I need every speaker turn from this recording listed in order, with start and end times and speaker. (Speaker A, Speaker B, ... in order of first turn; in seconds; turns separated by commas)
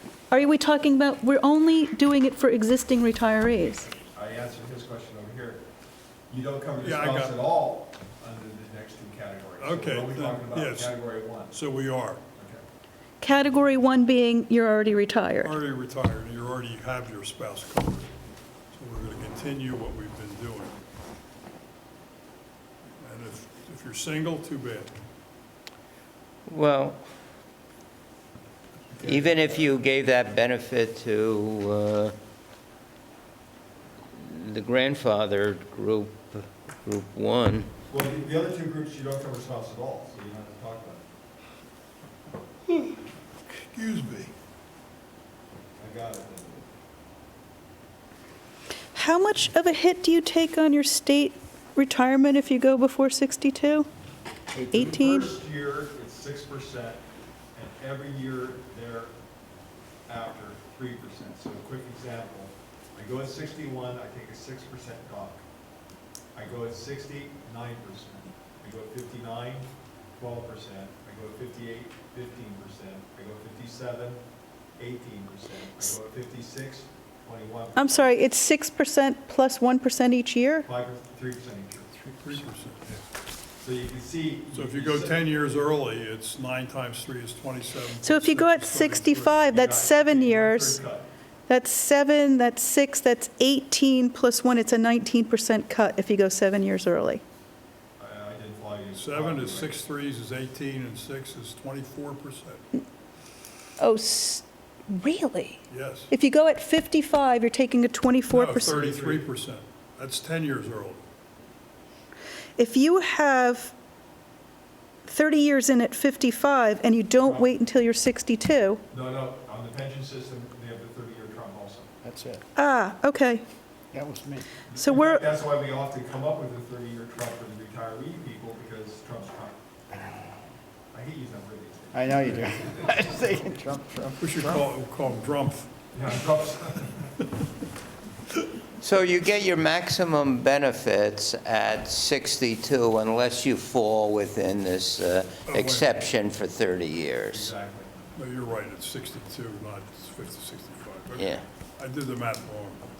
Speaker A: 0.3-3.9, Speaker B: 3.9-5.6, Speaker B: 6.3-11.6, Speaker C: 6.8-7.3, Speaker C: 9.6-10.9, Speaker C: 11.5-12.2, Speaker B: 12.3-12.6, Speaker A: 13.2-15.6, Speaker C: 15.4-18.1, Speaker C: 18.7-20.7, Speaker C: 23.0-24.9, Speaker D: 26.5-27.0, Speaker B: 28.9-29.7, Speaker D: 29.0-32.1, Speaker D: 34.1-37.7, Speaker B: 37.9-41.0, Speaker C: 42.7-43.0, Speaker C: 43.5-44.3, Speaker B: 45.8-46.6, Speaker A: 48.9-53.9, Speaker A: 54.7-55.3, Speaker B: 54.7-57.0, Speaker B: 57.5-59.1, Speaker B: 60.1-65.4, Speaker B: 66.3-74.2, Speaker B: 74.8-78.1, Speaker A: 77.8-80.7, Speaker B: 80.6-81.9, Speaker E: 82.1-82.4, Speaker C: 82.2-82.8, Speaker B: 83.6-85.5, Speaker C: 84.5-89.4, Speaker A: 88.0-90.8, Speaker B: 89.5-91.1, Speaker A: 91.5-97.2, Speaker B: 98.0-99.8, Speaker C: 99.0-102.6, Speaker A: 103.8-108.9, Speaker C: 105.7-106.1, Speaker C: 108.3-111.0, Speaker B: 108.9-109.2, Speaker A: 112.6-113.7, Speaker A: 115.0-118.8, Speaker B: 117.2-117.5, Speaker B: 118.9-121.9, Speaker E: 122.0-122.4, Speaker A: 122.5-123.4, Speaker E: 123.9-124.5, Speaker B: 124.7-129.6, Speaker A: 124.7-125.2, Speaker B: 130.9-132.9, Speaker E: 131.9-134.7, Speaker C: 134.2-135.7, Speaker B: 135.9-137.2, Speaker D: 138.8-147.5, Speaker C: 145.5-146.0, Speaker B: 147.3-148.1, Speaker C: 148.2-152.8, Speaker D: 151.1-151.4